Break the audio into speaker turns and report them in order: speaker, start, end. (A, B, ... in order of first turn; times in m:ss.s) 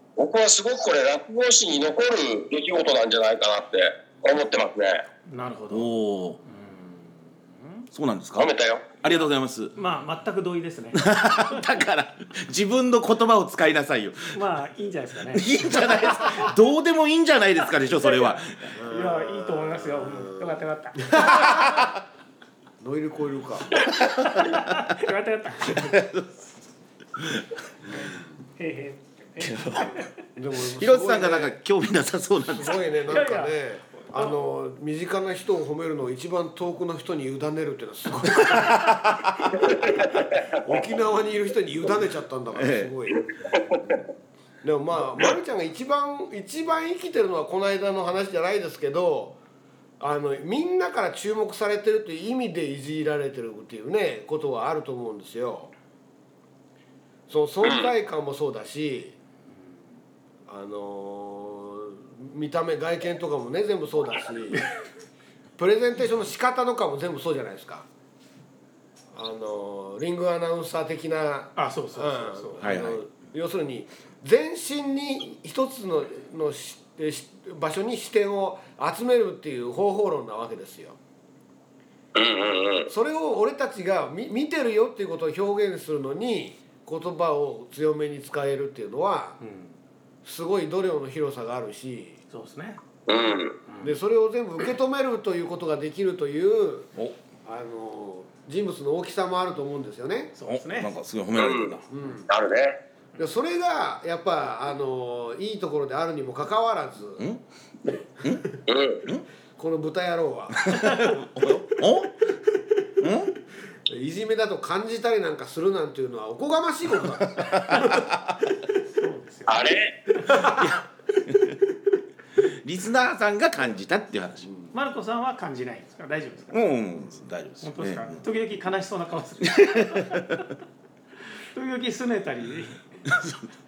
0:00.2-0:05.0 A
0:05.3-0:05.9 B
0:05.7-0:06.4 C
0:06.4-0:07.9 B
0:07.9-0:08.5 C
0:08.4-0:08.9 A
0:09.0-0:09.7 C
0:09.1-0:11.6 B
0:10.9-0:14.4 C
0:14.3-0:16.5 B
0:15.3-0:18.7 C
0:17.8-0:21.8 B
0:18.8-0:21.8 D
0:21.2-0:22.0 C
0:22.8-0:23.7 D
0:23.8-0:24.8 C
0:23.8-0:26.0 B
0:25.6-0:26.5 C
0:27.2-0:27.4 C
0:27.8-0:28.3 D
0:28.6-0:30.1 B
0:29.4-0:30.0 C
0:30.4-0:31.6 D
0:30.8-0:32.8 C
0:32.4-0:39.0 D
0:33.1-0:34.4 B
0:38.3-0:39.6 C
0:39.6-0:44.0 D
0:39.6-0:40.6 A
0:42.5-0:42.9 C
0:43.1-0:43.6 A
0:44.6-0:49.4 D
0:50.0-0:55.7 D
0:57.3-0:59.2 D
0:57.6-0:57.9 A
1:00.5-1:04.6 D
1:05.6-1:07.8 D
1:09.1-1:21.0 D
1:11.6-1:12.7 B
1:12.6-1:13.0 C
1:22.1-1:22.9 A
1:22.9-1:29.4 D
1:29.4-1:29.8 B
1:30.2-1:32.2 D
1:32.3-1:32.8 B
1:33.1-1:33.6 A
1:33.6-1:34.0 B
1:33.8-1:36.9 D
1:37.4-1:40.3 D
1:40.4-1:40.9 B
1:40.5-1:41.8 C
1:41.4-1:42.8 A
1:41.9-1:42.3 D
1:43.2-1:47.3 D
1:48.2-1:49.2 C
1:48.7-1:49.0 A
1:49.6-1:50.8 D
1:50.6-1:52.2 C
1:50.8-1:51.2 B
1:53.0-1:53.3 C
1:53.8-1:58.1 D
1:57.3-1:58.5 C
1:59.0-2:00.5 B
1:59.5-2:00.0 A
2:00.2-2:00.7 D
2:00.3-2:01.6 C
2:02.4-2:04.5 C
2:04.4-2:04.7 D
2:04.7-2:06.6 B
2:06.5-2:08.2 C
2:07.6-2:10.4 B
2:09.4-2:10.4 C
2:11.5-2:12.8 B
2:13.1-2:13.4 C